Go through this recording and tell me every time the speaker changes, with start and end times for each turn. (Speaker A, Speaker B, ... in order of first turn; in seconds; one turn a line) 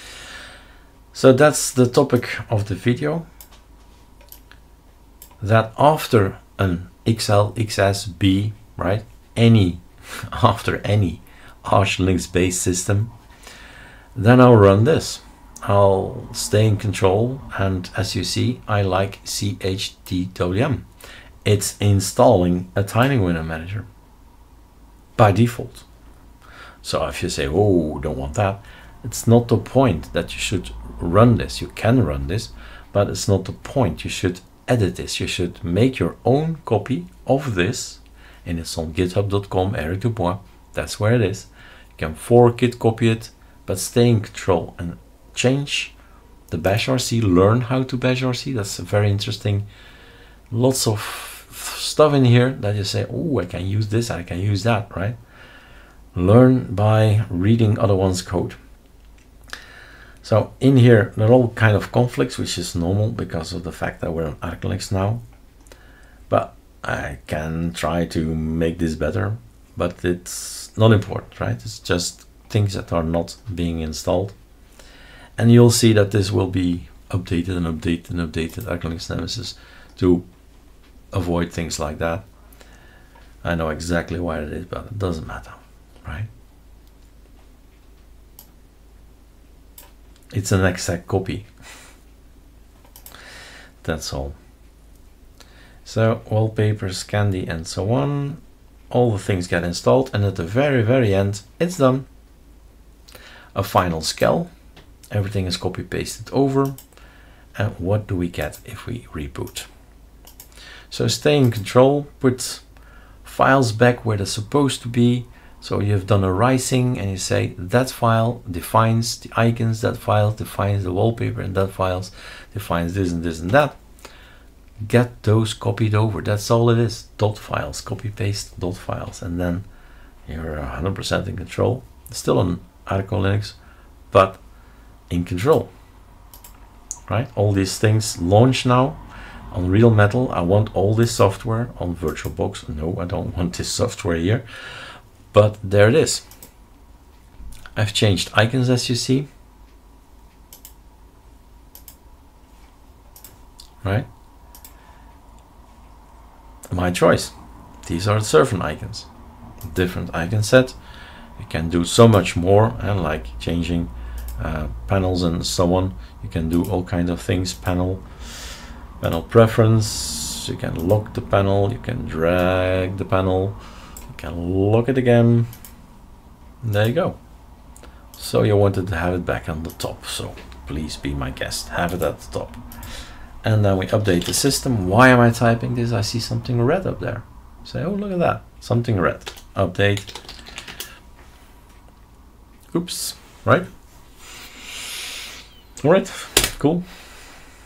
Speaker A: 1.1-3.3
Speaker A: 5.4-13.1
Speaker A: 14.2-20.9
Speaker A: 21.4-23.9
Speaker A: 25.2-25.9
Speaker A: 26.8-45.9
Speaker A: 46.5-49.7
Speaker A: 50.5-55.2
Speaker A: 56.1-58.6
Speaker A: 60.2-65.2
Speaker A: 66.3-74.3
Speaker A: 75.4-80.2
Speaker A: 81.1-82.2
Speaker A: 83.4-86.3
Speaker A: 90.3-91.5
Speaker A: 93.8-94.4
Speaker A: 95.8-102.1
Speaker A: 103.5-104.5
Speaker A: 105.1-106.8
Speaker A: 107.5-109.7
Speaker A: 110.9-112.6
Speaker A: 113.2-123.8
Speaker A: 124.8-129.7
Speaker A: 130.3-133.6
Speaker A: 134.1-134.4
Speaker A: 135.1-135.7
Speaker A: 137.1-139.0
Speaker A: 139.5-144.4
Speaker A: 145.3-146.2
Speaker A: 147.8-149.3
Speaker A: 156.7-159.1
Speaker A: 159.6-160.8
Speaker A: 161.4-173.6
Speaker A: 174.1-175.5
Speaker A: 176.6-177.2
Speaker A: 178.2-182.6
Speaker A: 183.4-190.1
Speaker A: 192.7-193.7
Speaker A: 195.8-196.8